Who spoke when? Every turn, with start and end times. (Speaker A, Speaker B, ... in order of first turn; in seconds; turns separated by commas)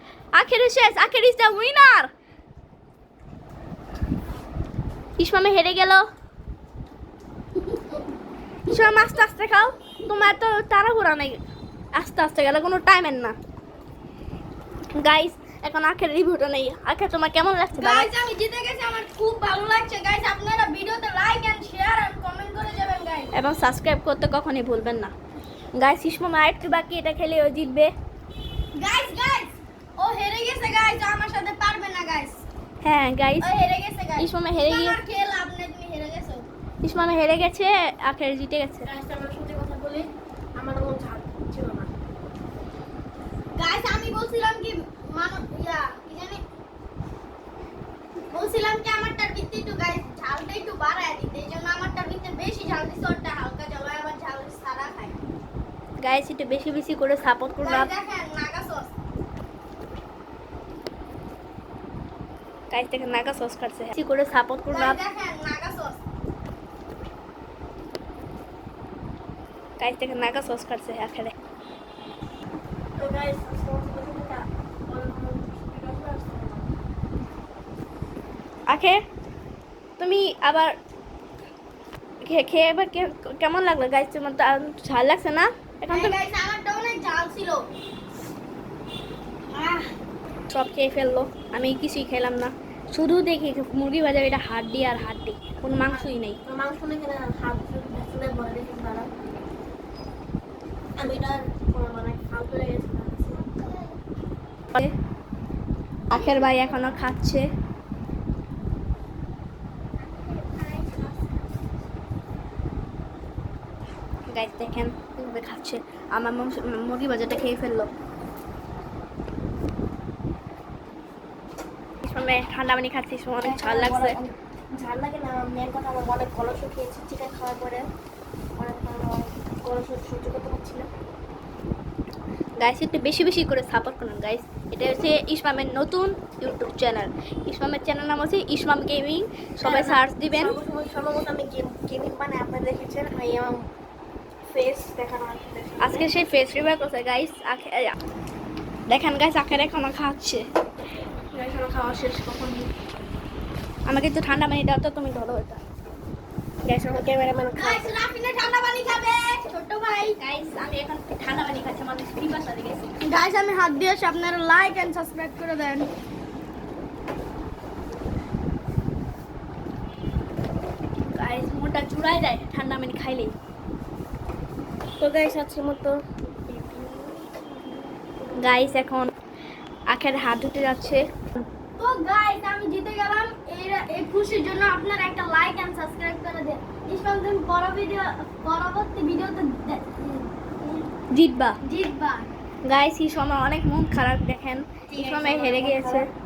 Speaker A: 0.3-2.1, Speaker A: 5.2-6.0, Speaker A: 8.7-11.4, Speaker B: 8.7-9.2, Speaker A: 11.9-13.4, Speaker A: 14.9-18.1, Speaker B: 17.8-23.3, Speaker A: 23.3-25.1, Speaker A: 25.8-27.9, Speaker B: 28.8-32.4, Speaker A: 32.8-33.5, Speaker B: 33.4-36.5, Speaker A: 34.2-35.0, Speaker A: 36.8-38.9, Speaker C: 38.9-41.9, Speaker B: 43.6-46.4, Speaker B: 48.3-55.1, Speaker A: 56.0-57.9, Speaker B: 57.6-58.9, Speaker A: 62.7-65.0, Speaker B: 64.7-66.0, Speaker A: 69.8-71.3, Speaker C: 73.0-76.7, Speaker A: 78.7-79.0, Speaker A: 80.0-80.8, Speaker A: 82.2-86.2, Speaker B: 85.9-87.7, Speaker B: 89.5-89.9, Speaker A: 90.5-96.4, Speaker C: 96.4-99.1, Speaker C: 101.0-103.5, Speaker B: 103.4-103.9, Speaker A: 106.1-107.5, Speaker B: 106.2-106.7, Speaker B: 110.0-111.3, Speaker A: 114.3-117.9, Speaker A: 122.0-124.2, Speaker C: 123.4-127.9, Speaker C: 128.6-130.9, Speaker A: 132.6-140.6, Speaker C: 139.6-143.7, Speaker C: 144.5-146.1, Speaker A: 145.8-147.9, Speaker A: 148.9-150.5, Speaker C: 151.3-152.7, Speaker A: 153.9-155.6, Speaker C: 156.7-157.9, Speaker B: 157.6-160.2, Speaker A: 160.2-162.9, Speaker B: 163.0-165.9, Speaker A: 171.0-173.3, Speaker C: 175.0-178.4, Speaker A: 178.4-179.1, Speaker A: 179.9-181.0, Speaker B: 181.8-189.9, Speaker C: 190.0-190.3, Speaker A: 191.1-191.6, Speaker B: 191.6-192.3, Speaker A: 192.7-196.1, Speaker C: 194.9-196.1